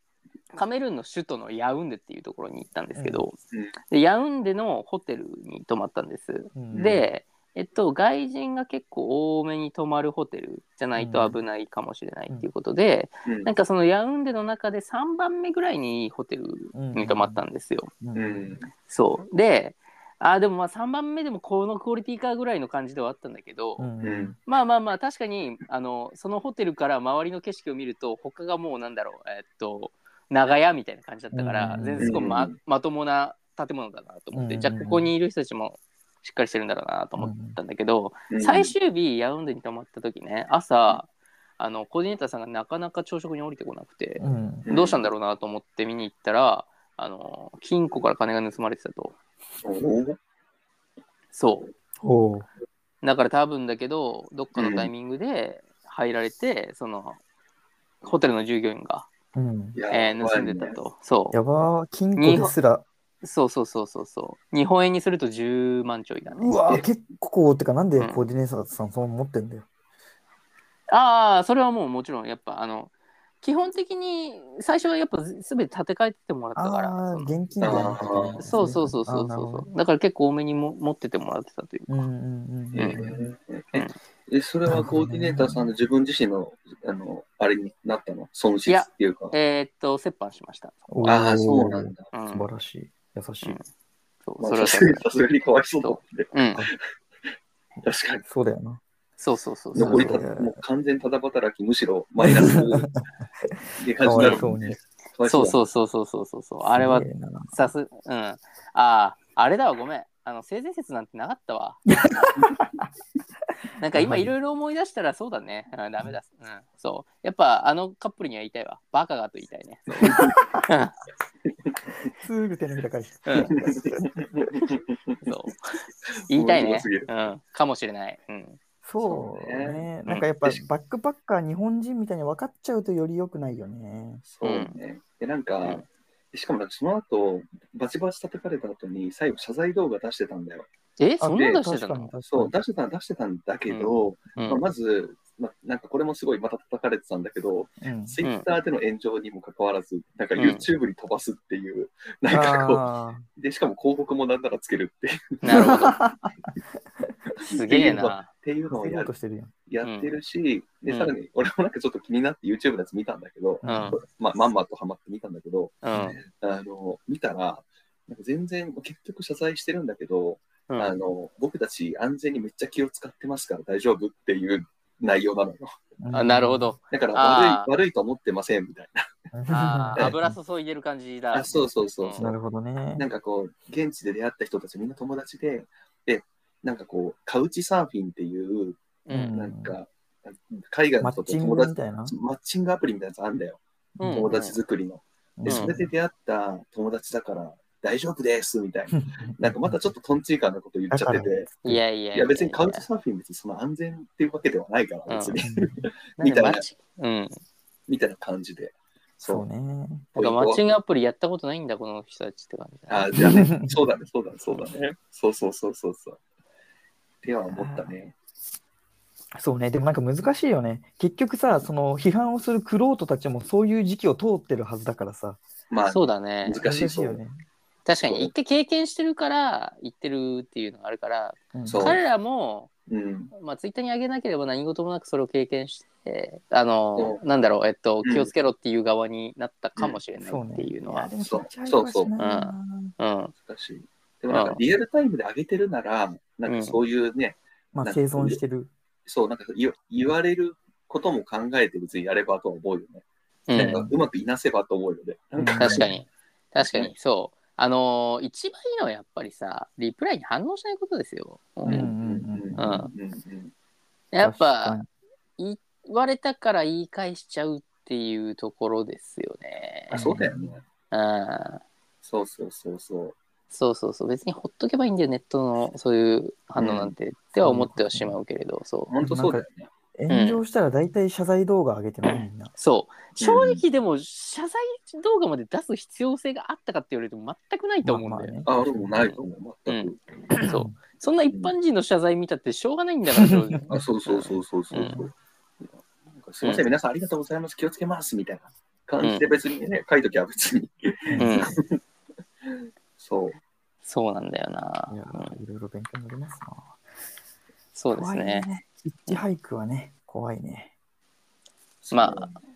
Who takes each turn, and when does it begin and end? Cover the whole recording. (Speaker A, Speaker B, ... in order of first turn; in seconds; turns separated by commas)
Speaker A: 0.5-3.4, Speaker B: 3.0-3.3, Speaker A: 3.9-17.9, Speaker B: 6.5-7.0, Speaker C: 6.7-7.1, Speaker B: 11.0-11.4, Speaker B: 16.7-17.4, Speaker B: 18.0-18.6, Speaker C: 18.1-18.7, Speaker A: 18.9-23.9, Speaker B: 23.8-24.4, Speaker C: 24.0-24.4, Speaker A: 24.5-49.2, Speaker B: 31.3-32.1, Speaker C: 32.0-32.5, Speaker B: 34.3-35.1, Speaker B: 37.2-37.6, Speaker C: 38.3-38.7, Speaker B: 44.2-44.7, Speaker C: 44.7-45.1, Speaker C: 49.6-50.2, Speaker A: 51.3-51.7, Speaker B: 52.0-52.5, Speaker A: 53.0-57.2, Speaker C: 54.5-54.9, Speaker A: 58.0-59.1, Speaker B: 59.4-59.8, Speaker C: 59.8-60.8, Speaker A: 59.9-61.4, Speaker B: 61.3-62.9, Speaker A: 62.2-62.6, Speaker A: 63.2-66.6, Speaker B: 66.3-69.7, Speaker A: 68.0-68.3, Speaker A: 70.9-82.1, Speaker B: 76.6-79.7, Speaker C: 77.6-78.7, Speaker B: 81.9-83.3, Speaker C: 82.7-89.3, Speaker A: 82.8-83.0, Speaker B: 84.7-85.7, Speaker A: 88.7-90.8, Speaker B: 90.9-93.6, Speaker C: 91.0-92.1, Speaker A: 92.1-92.5, Speaker A: 94.2-95.3, Speaker C: 94.4-96.3, Speaker A: 95.8-96.6, Speaker C: 97.8-98.2, Speaker B: 98.3-98.8, Speaker A: 99.2-100.2, Speaker B: 99.8-100.6, Speaker C: 99.8-102.9, Speaker B: 102.2-103.0, Speaker C: 103.8-105.6, Speaker B: 104.0-104.8, Speaker A: 104.2-104.5, Speaker A: 105.2-111.9, Speaker B: 106.7-107.7, Speaker B: 111.9-112.6, Speaker A: 113.8-121.0, Speaker B: 113.9-114.3, Speaker C: 120.0-120.2, Speaker B: 120.2-120.6, Speaker B: 122.2-124.5, Speaker A: 123.3-123.5, Speaker C: 123.6-125.4, Speaker A: 125.2-125.6, Speaker A: 126.3-128.6, Speaker C: 126.3-127.1, Speaker B: 128.8-134.2, Speaker C: 129.0-130.6, Speaker C: 134.2-140.7, Speaker A: 134.4-134.8, Speaker A: 141.0-142.2, Speaker B: 141.2-142.6, Speaker C: 141.4-141.6, Speaker C: 142.3-152.8, Speaker A: 143.7-144.6, Speaker B: 147.8-148.2, Speaker A: 150.4-150.7, Speaker B: 152.3-153.3, Speaker C: 153.4-155.8, Speaker A: 155.4-156.0, Speaker B: 155.6-157.1, Speaker C: 157.4-159.1, Speaker A: 157.4-158.3, Speaker B: 158.7-159.5, Speaker C: 159.7-175.7, Speaker A: 159.8-160.2, Speaker B: 163.6-164.0, Speaker A: 163.6-164.0, Speaker A: 165.8-166.2, Speaker B: 165.9-166.2, Speaker B: 176.0-176.8, Speaker A: 176.1-177.7, Speaker C: 176.9-179.0, Speaker B: 179.3-180.4, Speaker A: 179.5-182.3, Speaker C: 181.3-182.3, Speaker B: 182.2-183.1, Speaker C: 183.0-201.5, Speaker A: 189.1-189.3, Speaker B: 189.1-189.8, Speaker B: 191.0-192.2, Speaker B: 194.0-194.3, Speaker A: 194.0-194.6, Speaker B: 195.4-195.9, Speaker A: 195.5-195.7, Speaker B: 198.9-199.8, Speaker B: 200.9-201.8, Speaker A: 201.6-202.9, Speaker C: 202.1-206.6, Speaker A: 205.1-205.4, Speaker B: 205.4-205.9, Speaker A: 206.2-207.4, Speaker C: 207.9-209.5, Speaker B: 209.2-210.1, Speaker C: 210.1-210.7, Speaker A: 210.2-213.1, Speaker C: 212.9-216.2, Speaker B: 213.2-213.8, Speaker C: 217.2-218.1, Speaker B: 217.5-217.9, Speaker B: 219.4-225.4, Speaker C: 225.7-227.2, Speaker A: 225.9-226.7, Speaker B: 226.6-227.4, Speaker A: 227.8-232.7, Speaker C: 228.0-228.3, Speaker B: 231.5-232.0, Speaker C: 231.7-232.0, Speaker C: 232.9-233.3, Speaker A: 233.3-241.1, Speaker C: 237.0-237.2, Speaker B: 240.2-243.0, Speaker C: 241.2-242.1, Speaker A: 242.2-243.3, Speaker C: 243.4-248.4, Speaker A: 244.3-244.6, Speaker A: 246.5-246.8, Speaker B: 247.7-248.7, Speaker C: 249.1-256.0, Speaker A: 253.5-253.9, Speaker B: 255.4-255.9, Speaker A: 255.6-261.9, Speaker C: 256.6-256.9, Speaker B: 261.6-262.8, Speaker C: 261.7-263.5, Speaker A: 262.6-262.9, Speaker A: 264.1-264.8, Speaker B: 264.2-264.9, Speaker A: 265.4-270.1, Speaker B: 269.9-270.6, Speaker C: 269.9-270.6, Speaker A: 270.9-271.6, Speaker C: 272.0-273.2, Speaker A: 273.5-278.9, Speaker C: 276.6-276.9, Speaker B: 277.4-278.2, Speaker C: 278.9-279.7, Speaker B: 279.0-282.5, Speaker A: 280.1-280.4, Speaker A: 282.0-288.4, Speaker C: 283.2-283.6, Speaker B: 287.8-288.9, Speaker C: 288.5-290.0, Speaker A: 289.0-295.1, Speaker B: 290.4-290.8, Speaker C: 293.7-301.8, Speaker A: 299.0-299.3, Speaker B: 301.1-301.5, Speaker A: 301.2-301.5, Speaker C: 303.0-303.4, Speaker A: 303.8-305.4, Speaker B: 304.9-306.8, Speaker A: 307.7-308.5, Speaker B: 307.9-310.7, Speaker C: 311.8-312.4, Speaker A: 311.9-312.3